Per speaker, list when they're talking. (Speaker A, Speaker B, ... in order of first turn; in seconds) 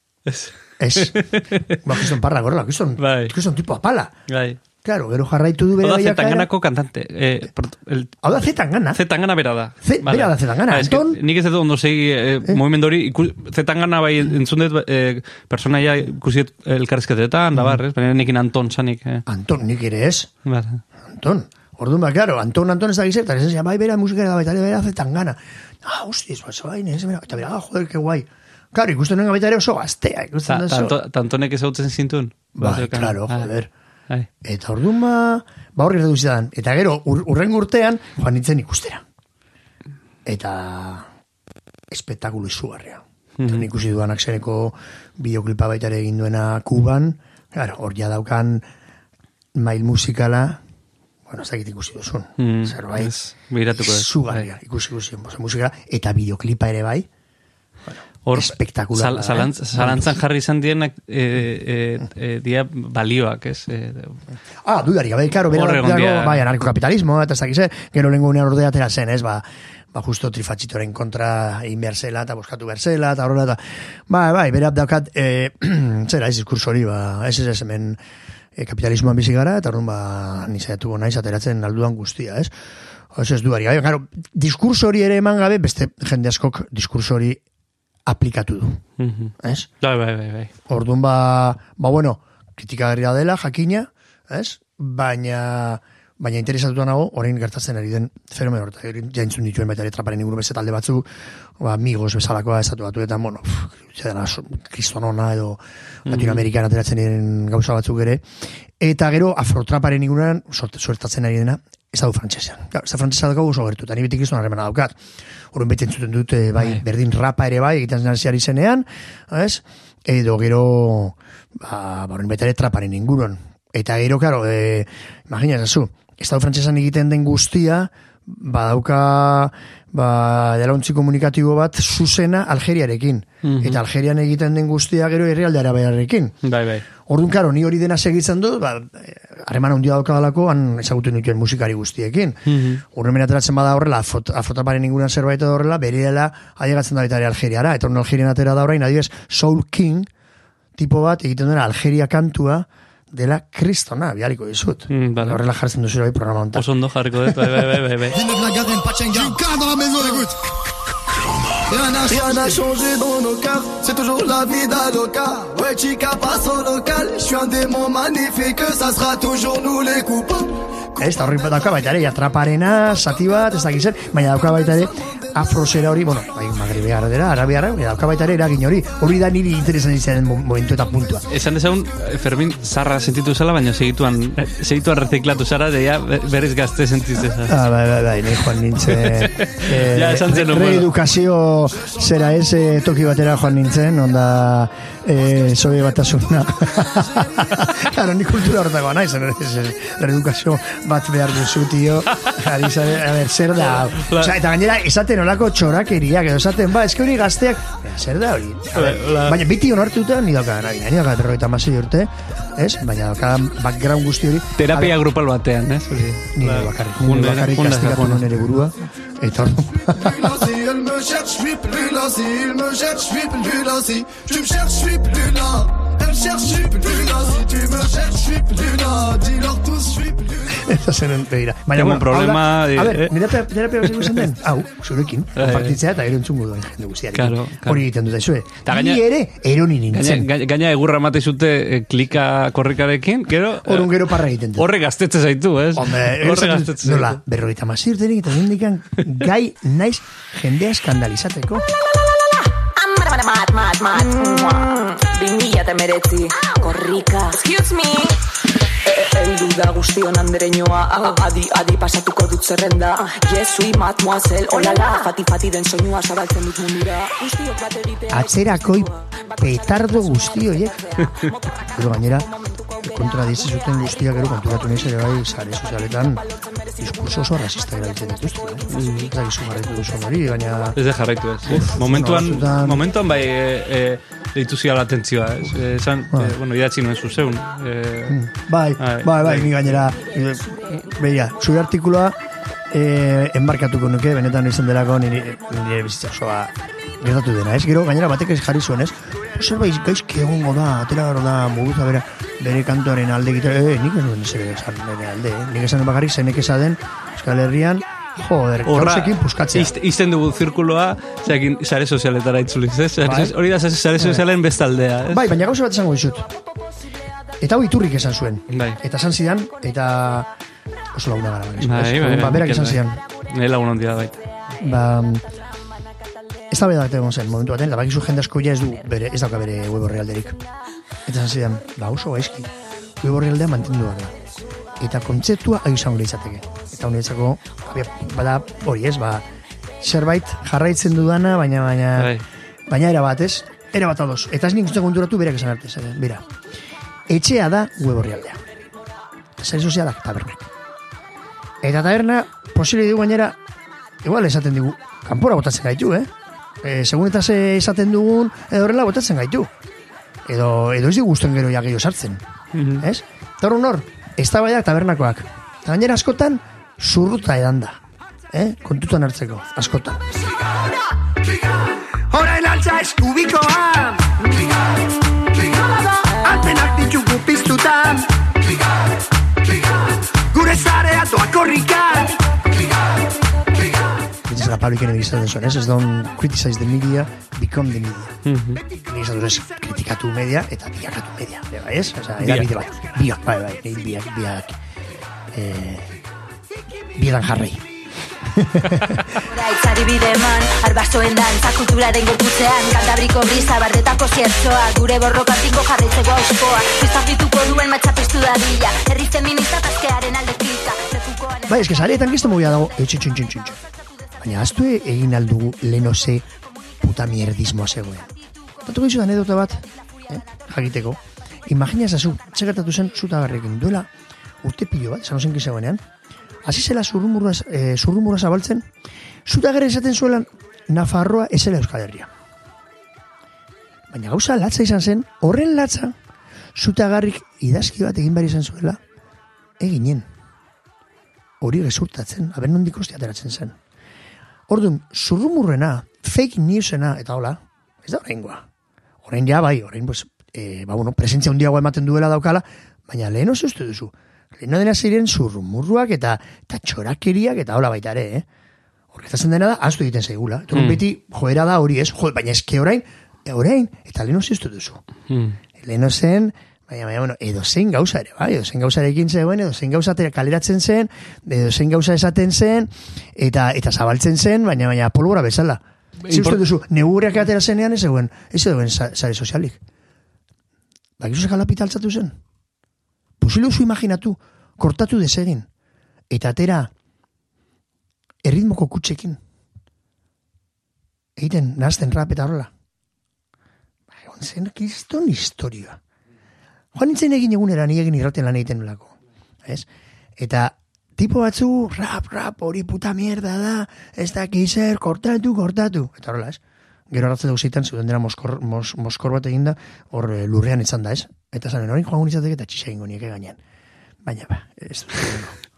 Speaker A: 0.2-1.8, 3.0-3.3, 4.3-4.6, 5.8-8.1, 8.9-19.2, 20.4-20.8, 30.5-33.5, 43.4-43.6, 52.4-54.5, 58.2-64.2, 65.5-66.5, 89.0-90.5, 106.1-106.5, 133.4-133.8, 136.4-136.8, 142.5-142.8, 154.9-155.4, 156.5-158.2, 181.3-187.6, 188.9-190.9, 202.1-202.4, 203.6-204.3, 208.7-209.4, 214.6-218.3, 231.7-234.3, 235.4-235.8, 237.1-237.8, 238.7-239.0, 239.9-247.2, 278.7-279.1, 280.8-288.1, 288.8-289.9, 308.6-315.3, 318.5-318.8, 321.6-324.3, 342.0-342.2, 362.5-362.8, 388.2-388.6, 392.2-392.5, 460.5-460.8, 465.1-465.4, 476.0-476.4
Speaker B: 0.8-4.1, 4.8-6.5, 8.2-9.0, 9.8-11.2, 17.5-17.8, 19.3-20.3, 21.1-31.0, 32.6-33.7, 34.4-39.0, 40.2-41.1, 41.9-48.6, 49.5-50.6, 51.3-53.1, 53.7-57.1, 57.9-60.2, 64.6-78.0, 78.5-82.5, 83.1-87.4, 88.1-88.8, 89.4-89.7, 90.7-101.1, 101.6-108.2, 108.8-114.9, 115.5-136.3, 137.1-150.1, 150.8-156.6, 162.2-162.5, 171.0-181.2, 187.5-214.9, 216.3-220.4, 230.5-240.3, 243.6-244.7, 245.8-251.6, 268.1-270.8, 271.7-272.3, 272.8-276.2, 276.8-280.8, 281.4-282.8, 288.1-292.1, 292.7-309.7, 313.0-313.3, 314.0-314.3, 315.1-316.3, 317.4-320.3, 320.9-323.0, 324.6-325.2, 326.5-330.4, 331.0-334.1, 334.8-339.2, 339.8-342.1, 342.7-346.2, 347.1-348.4, 349.4-350.5, 351.6-353.4, 354.0-356.1, 356.6-359.5, 360.3-362.2, 362.8-367.8, 368.3-370.1, 372.1-374.3, 376.2-378.0, 380.3-382.1, 384.2-388.1, 388.8-394.6, 395.3-396.0, 396.9-397.7, 398.3-399.1, 411.5-413.6, 414.2-416.2, 416.8-418.1, 418.6-423.9, 424.4-425.8, 426.4-428.7, 429.2-432.1, 433.9-435.9, 436.5-438.8, 439.6-440.1, 441.4-443.6, 444.5-448.4, 449.0-458.2, 458.9-464.8, 465.6-479.6, 481.0-482.1, 483.2-485.5, 486.1-486.7, 488.2-489.2, 491.2-492.5, 494.0-495.8, 496.7-498.9, 500.2-506.4, 506.9-513.4, 514.0-515.4
Speaker C: 158.1-160.4, 161.7-170.5, 219.9-230.6
Speaker D: 252.8-258.2, 258.9-268.3
Speaker E: 399.3-411.4